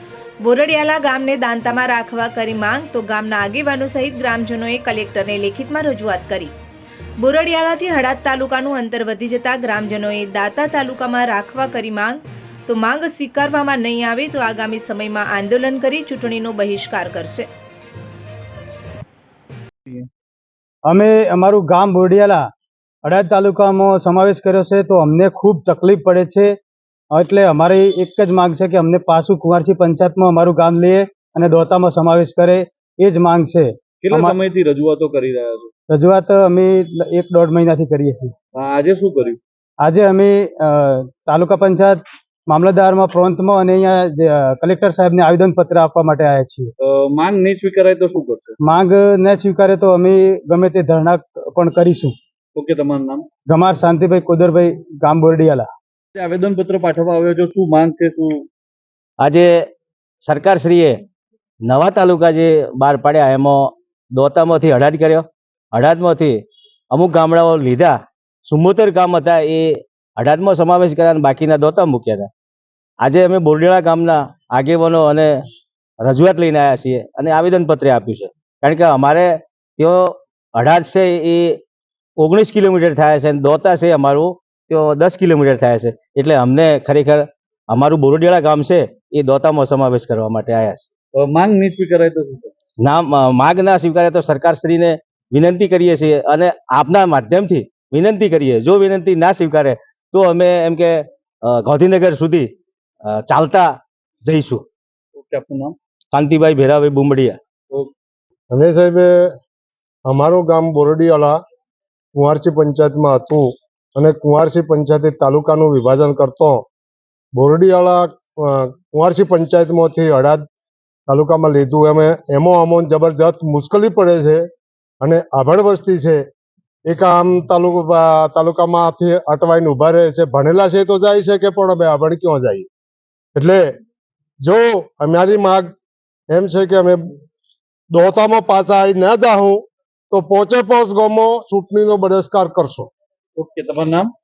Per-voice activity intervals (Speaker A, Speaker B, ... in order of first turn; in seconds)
Speaker A: 0.4-6.5, 7.2-17.5
Speaker B: 20.9-22.4, 23.0-26.5, 27.1-34.3, 35.9-38.3, 39.8-46.7, 48.6-52.1, 53.5-55.7
Speaker C: 34.0-35.7, 38.5-39.4, 46.8-48.5, 52.5-53.2, 56.1-58.4, 91.2-92.5, 105.1-105.8, 143.4-144.1
Speaker D: 59.2-59.5, 60.2-61.0, 61.6-66.4, 66.9-67.9, 68.5-72.3, 73.0-75.4, 76.0-81.6, 82.2-90.9, 92.8-102.5, 103.1-103.7, 104.2-104.6, 106.1-107.4
Speaker E: 108.5-109.3, 110.1-111.3, 112.2-116.6, 117.3-120.4, 121.1-124.4, 125.0-126.2, 126.9-132.7, 133.3-133.7, 134.4-135.7, 136.3-137.0, 137.9-142.9